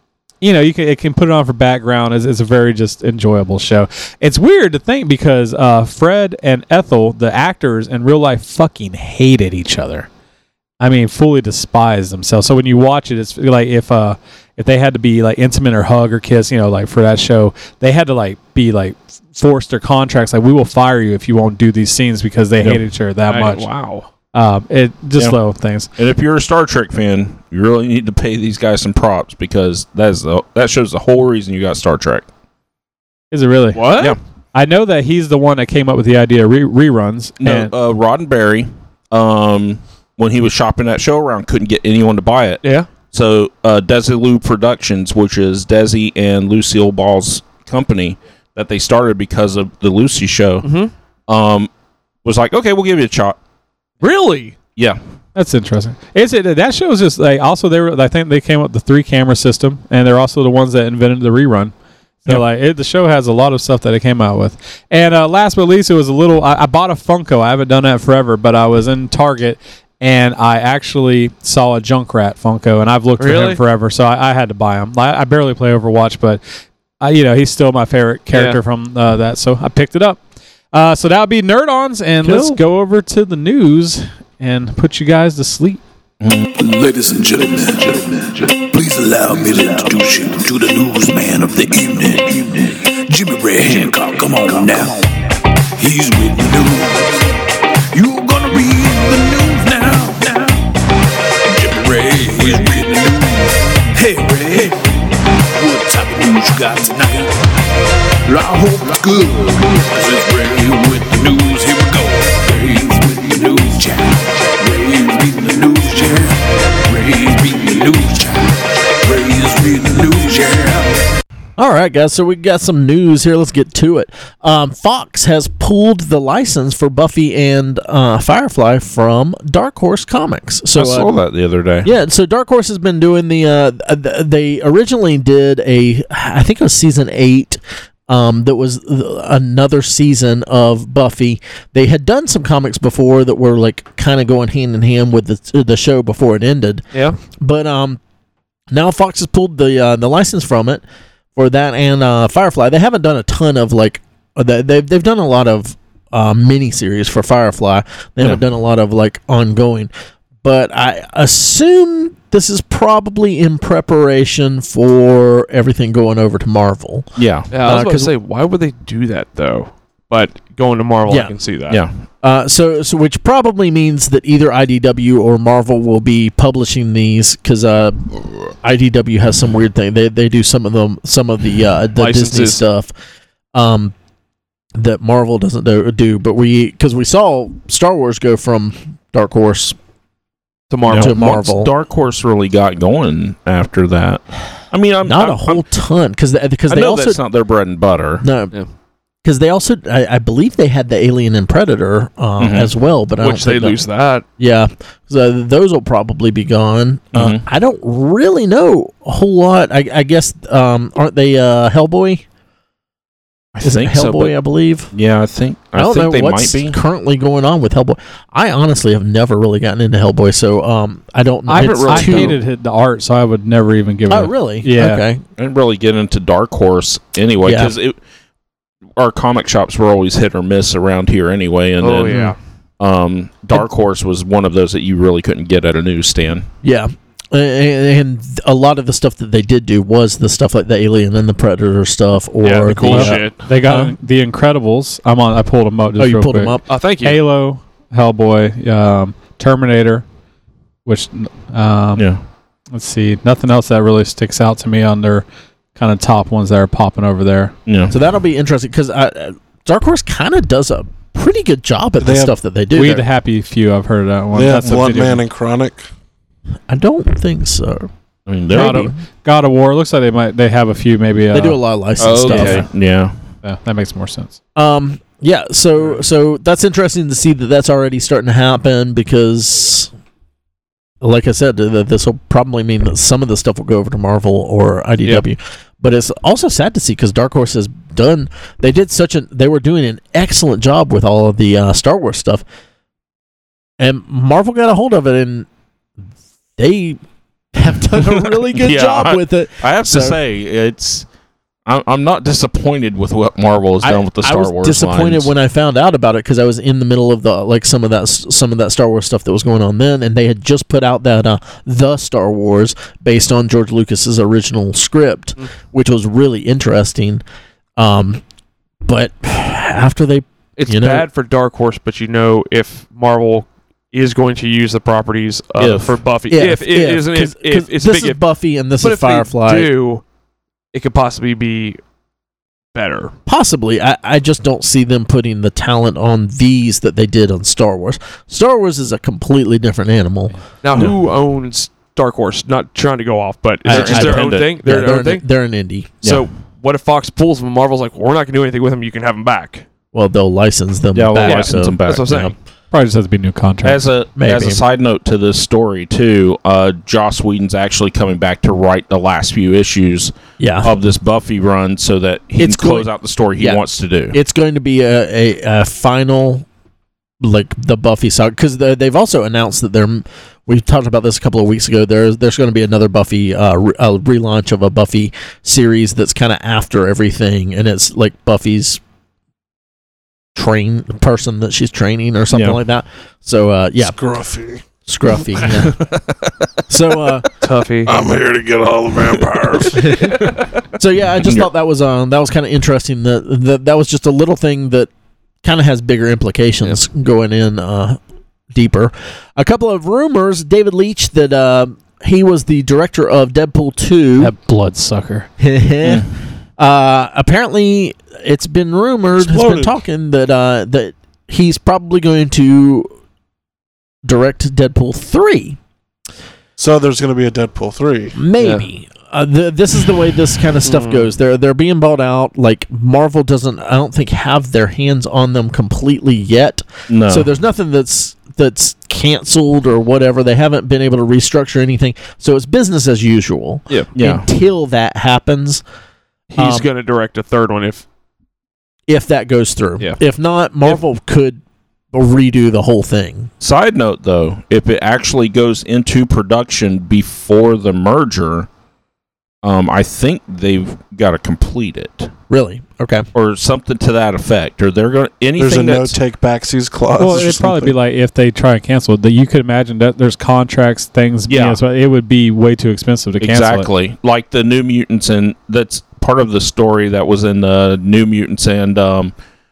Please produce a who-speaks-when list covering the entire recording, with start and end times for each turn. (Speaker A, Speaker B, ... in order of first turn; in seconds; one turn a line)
Speaker A: 0.4-10.1
Speaker A: 10.8-23.7
Speaker B: 22.6-24.0
Speaker C: 23.4-23.7
Speaker A: 24.3-25.9
Speaker B: 26.0-32.3
Speaker A: 33.3-34.0
Speaker C: 33.7-34.2
Speaker A: 34.5-37.7
Speaker B: 37.4-50.7
Speaker C: 42.6-42.9
Speaker C: 50.6-50.9
Speaker B: 51.3-51.7
Speaker B: 52.2-53.4
Speaker C: 54.0-54.5
Speaker A: 55.4-61.7
Speaker A: 62.2-76.4
Speaker C: 73.2-73.6
Speaker A: 77.0-80.2
Speaker C: 78.3-78.6
Speaker A: 80.7-85.8
Speaker D: 82.2-82.6
Speaker E: 86.5-95.1
Speaker E: 95.8-97.4
Speaker E: 97.9-100.7
Speaker E: 101.5-107.6
Speaker E: 108.2-121.1
Speaker D: 121.6-131.1
Speaker B: 130.8-131.9
Speaker D: 131.8-146.9
Speaker C: 146.9-147.2
Speaker D: 147.4-148.0
Speaker D: 148.7-150.8
Speaker D: 151.3-159.9
Speaker D: 160.4-167.1
Speaker B: 167.2-167.5
Speaker C: 167.5-171.8
Speaker D: 167.6-168.1
Speaker D: 171.1-171.3
Speaker D: 172.2-178.1
Speaker D: 178.6-182.9
Speaker C: 182.0-182.6
Speaker D: 183.5-183.9
Speaker D: 184.8-189.8
Speaker C: 190.7-191.2
Speaker B: 190.9-195.6
Speaker D: 190.9-191.7
Speaker D: 195.0-197.2
Speaker B: 196.7-198.2
Speaker D: 198.2-198.5
Speaker D: 199.2-203.8
Speaker B: 202.4-202.7
Speaker C: 203.2-204.2
Speaker D: 204.4-212.2
Speaker B: 207.1-207.4
Speaker B: 213.6-214.3
Speaker D: 213.6-214.9
Speaker B: 214.9-216.8
Speaker D: 215.8-222.4
Speaker A: 221.5-225.1
Speaker B: 221.6-222.4
Speaker D: 224.1-225.2
Speaker B: 225.4-228.0
Speaker D: 227.4-227.7
Speaker B: 229.0-236.5
Speaker C: 231.8-232.4
Speaker D: 236.6-243.9
Speaker C: 242.4-243.5
Speaker A: 242.9-250.1
Speaker D: 246.0-246.6
Speaker C: 246.7-247.2
Speaker A: 250.8-252.1
Speaker B: 252.0-252.2
Speaker A: 252.7-257.5
Speaker B: 257.7-257.9
Speaker D: 257.9-263.1
Speaker F: 262.0-262.4
Speaker A: 262.7-265.2
Speaker F: 264.3-265.9
Speaker D: 266.7-267.9
Speaker B: 268.3-268.9
Speaker D: 268.5-269.0
Speaker A: 268.5-271.6
Speaker D: 271.3-272.7
Speaker B: 272.0-273.1
Speaker A: 272.2-272.6
Speaker A: 273.4-274.4
Speaker D: 274.6-279.9
Speaker D: 281.0-292.4
Speaker D: 293.8-295.5
Speaker D: 296.6-297.0
Speaker D: 297.5-300.2
Speaker B: 298.2-301.1
Speaker B: 301.7-305.3
Speaker D: 303.8-317.2
Speaker D: 317.8-318.2
Speaker D: 318.9-321.1
Speaker C: 320.6-328.2
Speaker B: 325.6-326.0
Speaker D: 326.3-329.7
Speaker C: 328.8-330.0
Speaker C: 330.7-331.8
Speaker C: 332.8-333.1
Speaker D: 333.3-340.4
Speaker C: 340.6-345.2
Speaker D: 343.6-345.9
Speaker B: 343.7-344.6
Speaker C: 346.0-349.6
Speaker D: 349.9-352.3
Speaker B: 350.9-352.3
Speaker C: 351.2-352.4
Speaker A: 352.7-353.8
Speaker B: 353.6-364.2
Speaker D: 354.2-354.6
Speaker D: 360.4-360.7
Speaker D: 362.4-366.5
Speaker D: 367.2-378.8
Speaker D: 380.4-384.0
Speaker B: 382.3-382.6
Speaker F: 383.8-384.6
Speaker D: 384.9-385.8
Speaker D: 386.7-387.3
Speaker C: 387.4-388.0
Speaker F: 387.9-390.1
Speaker D: 389.8-390.2
Speaker D: 390.8-394.9
Speaker B: 391.2-391.5
Speaker D: 395.4-398.0
Speaker D: 398.5-404.3
Speaker A: 404.2-405.3
Speaker D: 405.4-406.1
Speaker B: 405.8-406.1
Speaker D: 406.6-412.9
Speaker F: 409.2-409.8
Speaker D: 414.0-415.6
Speaker F: 416.6-418.2
Speaker D: 418.1-435.6
Speaker C: 418.4-418.7
Speaker C: 420.6-421.1
Speaker B: 426.9-427.3
Speaker B: 433.9-434.2
Speaker C: 436.3-437.8
Speaker D: 436.4-436.7
Speaker D: 438.9-441.4
Speaker D: 441.9-443.3
Speaker B: 443.4-448.5
Speaker B: 449.4-452.1
Speaker D: 452.3-453.1
Speaker B: 453.1-456.0
Speaker F: 455.4-457.8
Speaker A: 457.0-463.7
Speaker B: 461.3-461.6
Speaker B: 463.2-469.1